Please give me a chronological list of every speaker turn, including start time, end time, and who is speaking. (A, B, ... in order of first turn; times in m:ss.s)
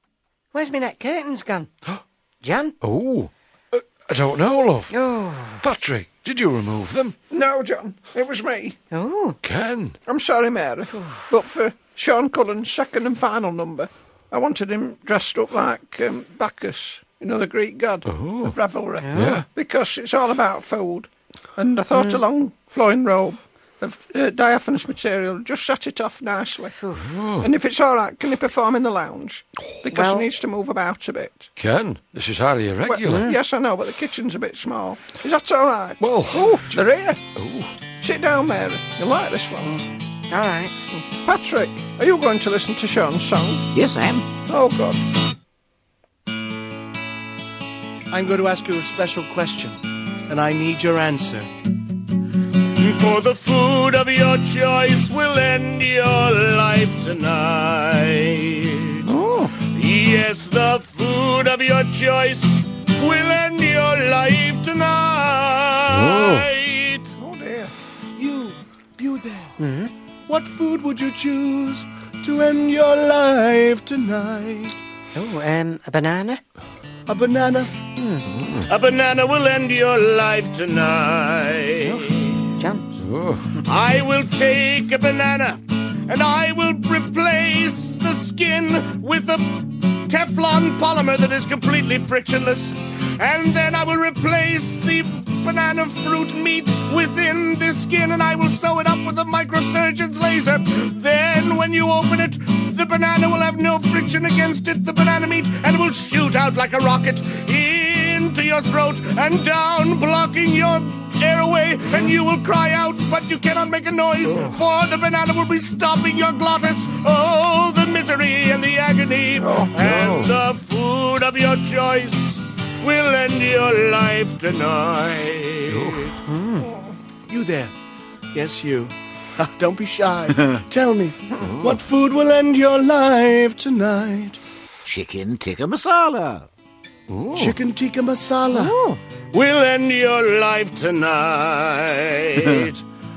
0:00.5-0:01.7 A
0:02.4-0:02.8 A
0:02.8-0:05.0 B
0:04.9-0:05.6 A
0:05.5-0:07.3 B
0:07.2-0:08.8 C
0:08.9-0:09.4 A
0:09.4-0:10.0 B
0:10.0-0:26.8 C
0:10.9-0:11.3 A
0:18.1-0:18.5 B
0:19.0-0:19.4 A
0:19.1-0:19.4 B
0:21.9-0:22.2 A
0:26.8-0:27.1 A
0:27.1-0:27.5 B
0:27.4-0:31.5 C
0:29.8-0:30.3 A
0:31.6-0:33.3 B
0:32.9-0:37.2 C
0:32.9-0:33.4 A
0:36.0-0:36.6 B
0:37.3-0:37.8 B
0:38.0-0:39.8 C
0:40.3-0:41.0 A
0:41.2-0:43.7 C
0:43.7-0:44.3 D
0:44.5-0:45.0 C
0:48.1-0:51.5 E
0:52.8-1:07.1 F
0:59.1-0:59.5 C
1:05.9-1:06.5 B
1:07.2-1:07.7 C
1:08.2-1:09.5 E
1:09.6-1:09.9 A
1:10.3-1:14.7 E
1:15.2-1:16.4 A
1:17.1-1:17.7 E
1:17.9-1:18.3 A
1:18.7-1:22.5 F
1:21.8-1:22.9 A
1:23.0-1:23.5 B
1:23.6-2:06.1 F
1:59.4-1:59.8 C
1:59.8-2:00.3 B
2:05.7-2:06.1 B
2:06.2-2:06.7 A
2:07.3-2:07.7 E
2:08.3-2:14.4 E
2:14.8-2:16.5 D
2:17.1-2:17.5 B
2:17.4-2:18.8 E
2:18.5-2:19.0 A
2:19.3-2:22.8 F